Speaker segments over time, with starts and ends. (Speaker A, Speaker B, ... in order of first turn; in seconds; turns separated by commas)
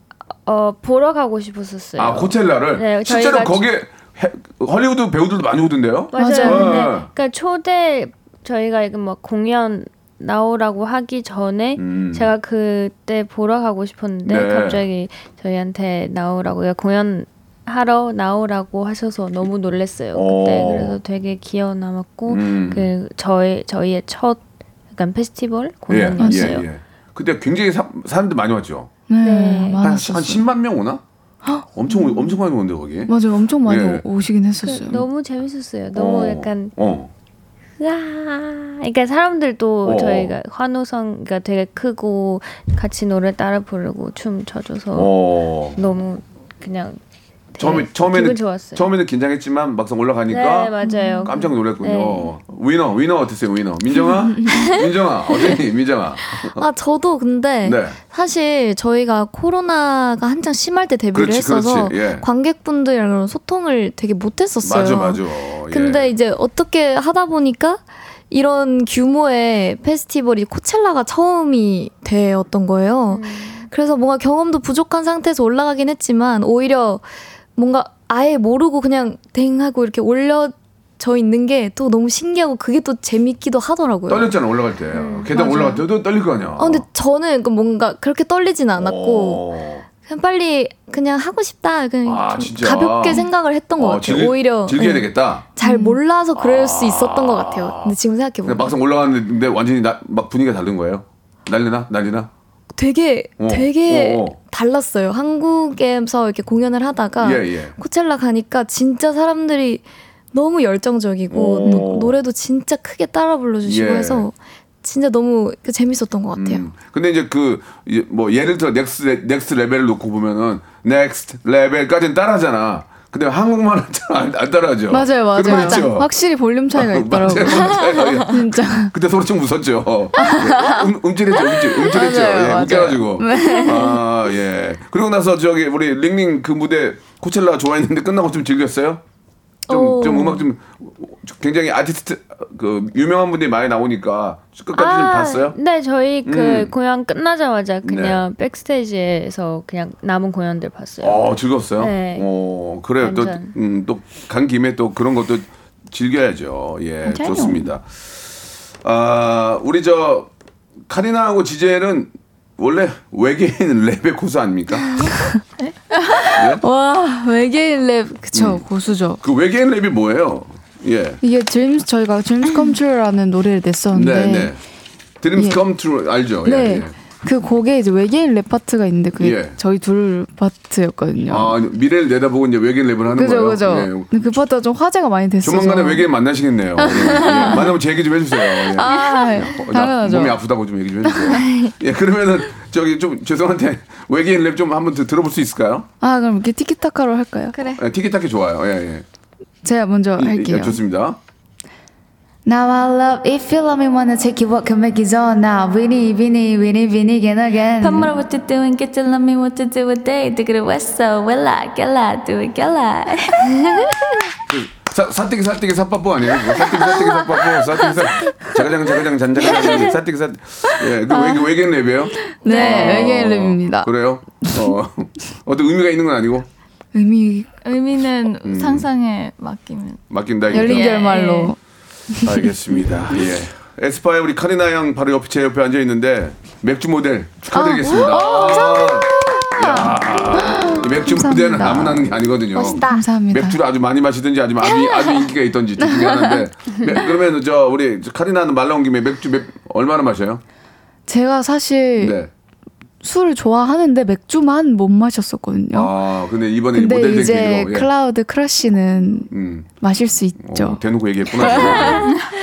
Speaker A: 0.5-3.7, Speaker B: 2.0-7.1, Speaker A: 6.1-26.7, Speaker C: 6.2-6.8, Speaker B: 11.8-12.3, Speaker B: 14.2-14.8, Speaker B: 20.1-21.0, Speaker B: 22.3-22.9, Speaker B: 25.9-28.9, Speaker C: 26.2-26.6, Speaker C: 29.1-30.4, Speaker A: 29.2-29.8, Speaker B: 29.8-31.0, Speaker B: 31.7-33.1, Speaker C: 33.1-35.0, Speaker B: 33.6-34.0, Speaker A: 34.6-36.7, Speaker B: 35.9-37.1, Speaker A: 37.8-45.1, Speaker B: 39.8-40.4, Speaker B: 44.9-45.8, Speaker A: 45.8-47.0, Speaker A: 47.5-48.9, Speaker B: 47.6-50.7, Speaker A: 50.3-52.3, Speaker C: 50.9-51.3, Speaker B: 51.3-56.6, Speaker D: 56.4-84.3, Speaker B: 57.6-58.0, Speaker B: 61.1-62.3, Speaker B: 64.6-66.1, Speaker A: 73.1-73.7, Speaker B: 84.1-86.9, Speaker A: 84.9-85.3, Speaker C: 85.4-85.7, Speaker D: 85.4-85.7, Speaker D: 86.6-89.4, Speaker B: 88.8-89.8, Speaker D: 90.0-98.7, Speaker B: 92.0-95.5, Speaker C: 95.6-96.0, Speaker B: 96.3-102.3, Speaker D: 102.8-116.6, Speaker B: 103.4-104.4, Speaker B: 107.2-107.8, Speaker B: 111.3-112.2, Speaker C: 111.6-111.9, Speaker B: 113.7-114.3, Speaker B: 116.3-126.1, Speaker C: 124.9-128.9, Speaker D: 125.5-125.8, Speaker B: 126.8-139.0, Speaker C: 130.2-130.8, Speaker C: 131.8-134.0, Speaker B: 139.7-145.6, Speaker D: 139.7-140.4, Speaker A: 144.7-151.3, Speaker B: 146.2-146.7, Speaker B: 147.8-148.2, Speaker B: 151.0-158.3, Speaker A: 151.8-152.3, Speaker A: 153.0-153.6, Speaker C: 157.1-157.7, Speaker B: 158.8-160.3, Speaker B: 160.9-165.1, Speaker E: 165.6-166.3, Speaker C: 166.1-169.2, Speaker B: 166.3-166.6, Speaker B: 168.3-168.6, Speaker B: 169.2-171.2, Speaker C: 171.2-174.5, Speaker B: 173.9-174.6, Speaker B: 175.2-176.9, Speaker C: 175.4-175.6, Speaker C: 176.4-181.5, Speaker B: 179.2-179.6, Speaker B: 181.3-184.1, Speaker C: 183.1-186.1, Speaker B: 185.4-195.9, Speaker C: 186.8-187.7, Speaker C: 188.5-190.4, Speaker C: 191.0-191.4, Speaker C: 196.0-197.6, Speaker B: 197.7-199.1, Speaker C: 199.6-200.8, Speaker B: 200.2-201.2, Speaker C: 202.5-208.1, Speaker E: 207.8-213.9, Speaker B: 214.5-226.5, Speaker C: 222.4-223.9, Speaker E: 222.4-223.1, Speaker C: 224.4-224.7, Speaker C: 226.9-227.5, Speaker E: 227.6-231.5, Speaker B: 228.4-228.9, Speaker B: 230.1-231.1, Speaker C: 230.5-231.6, Speaker C: 232.1-232.5, Speaker B: 232.2-250.4, Speaker C: 237.5-242.1, Speaker D: 242.6-243.0, Speaker C: 242.8-243.6, Speaker C: 251.1-252.2, Speaker B: 252.0-252.3, Speaker C: 253.0-255.9, Speaker B: 255.7-257.9, Speaker C: 256.7-259.3, Speaker B: 259.3-259.7, Speaker C: 259.8-260.8, Speaker B: 260.4-262.2, Speaker C: 261.4-262.1